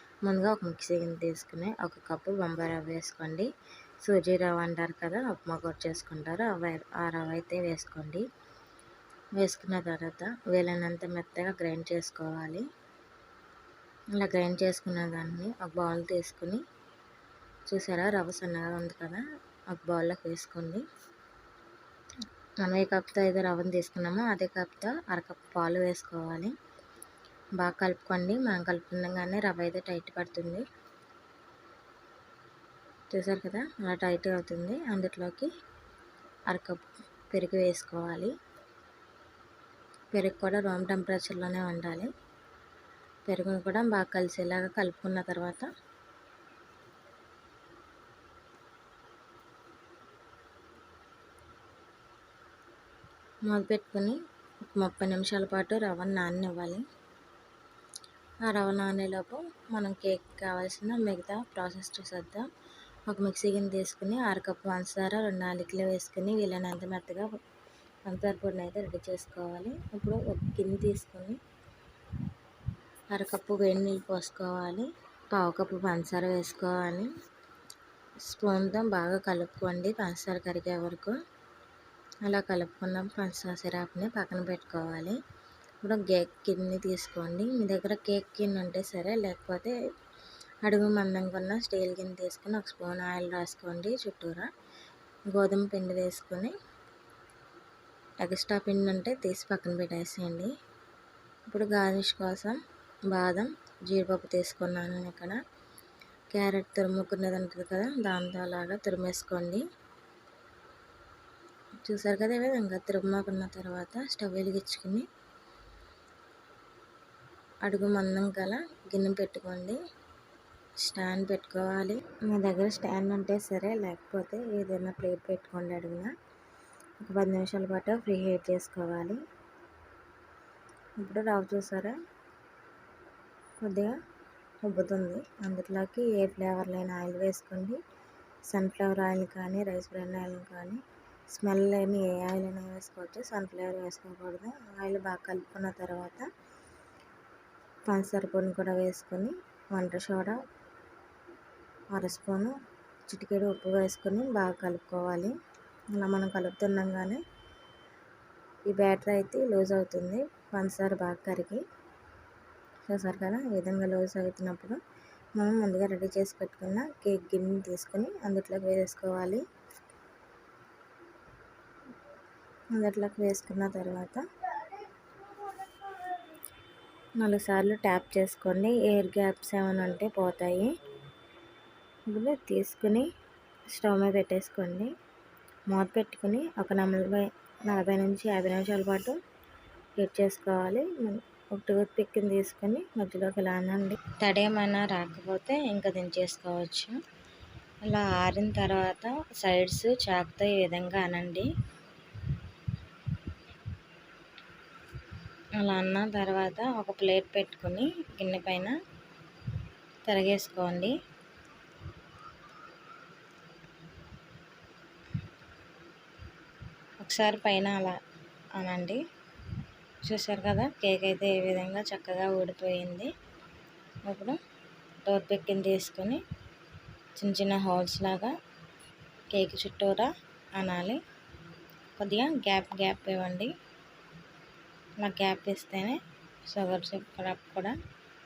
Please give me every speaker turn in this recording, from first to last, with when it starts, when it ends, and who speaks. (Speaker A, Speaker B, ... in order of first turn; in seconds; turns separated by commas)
Speaker A: 0.2-8.2, Speaker A: 9.4-12.6, Speaker A: 14.2-16.6, Speaker A: 17.7-20.8, Speaker A: 22.6-26.5, Speaker A: 27.6-30.6, Speaker A: 33.1-35.5, Speaker A: 36.5-38.3, Speaker A: 40.1-42.1, Speaker A: 43.2-45.7, Speaker A: 53.5-54.2, Speaker A: 54.7-56.8, Speaker A: 58.5-62.5, Speaker A: 63.1-67.3, Speaker A: 68.1-71.4, Speaker A: 73.1-77.1, Speaker A: 78.2-81.2, Speaker A: 82.2-85.2, Speaker A: 85.8-89.7, Speaker A: 90.6-94.5, Speaker A: 95.3-96.5, Speaker A: 98.2-100.5, Speaker A: 101.5-102.6, Speaker A: 103.1-105.4, Speaker A: 106.3-109.6, Speaker A: 111.8-115.1, Speaker A: 117.6-119.8, Speaker A: 120.8-126.1, Speaker A: 127.0-129.2, Speaker A: 131.0-131.9, Speaker A: 133.6-133.9, Speaker A: 134.7-137.8, Speaker A: 138.5-146.3, Speaker A: 147.9-150.4, Speaker A: 151.9-152.5, Speaker A: 153.1-155.3, Speaker A: 155.9-157.2, Speaker A: 158.7-161.6, Speaker A: 162.9-164.8, Speaker A: 165.4-169.4, Speaker A: 172.7-174.2, Speaker A: 177.2-180.7, Speaker A: 182.1-183.1, Speaker A: 183.7-184.9, Speaker A: 185.7-189.2, Speaker A: 190.0-197.0, Speaker A: 197.8-201.5, Speaker A: 205.6-208.8, Speaker A: 210.1-210.9, Speaker A: 217.0-218.0, Speaker A: 218.6-219.0, Speaker A: 220.0-223.1, Speaker A: 224.0-224.4, Speaker A: 225.0-226.2, Speaker A: 227.2-228.3, Speaker A: 229.3-231.0, Speaker A: 232.0-233.5, Speaker A: 235.0-237.8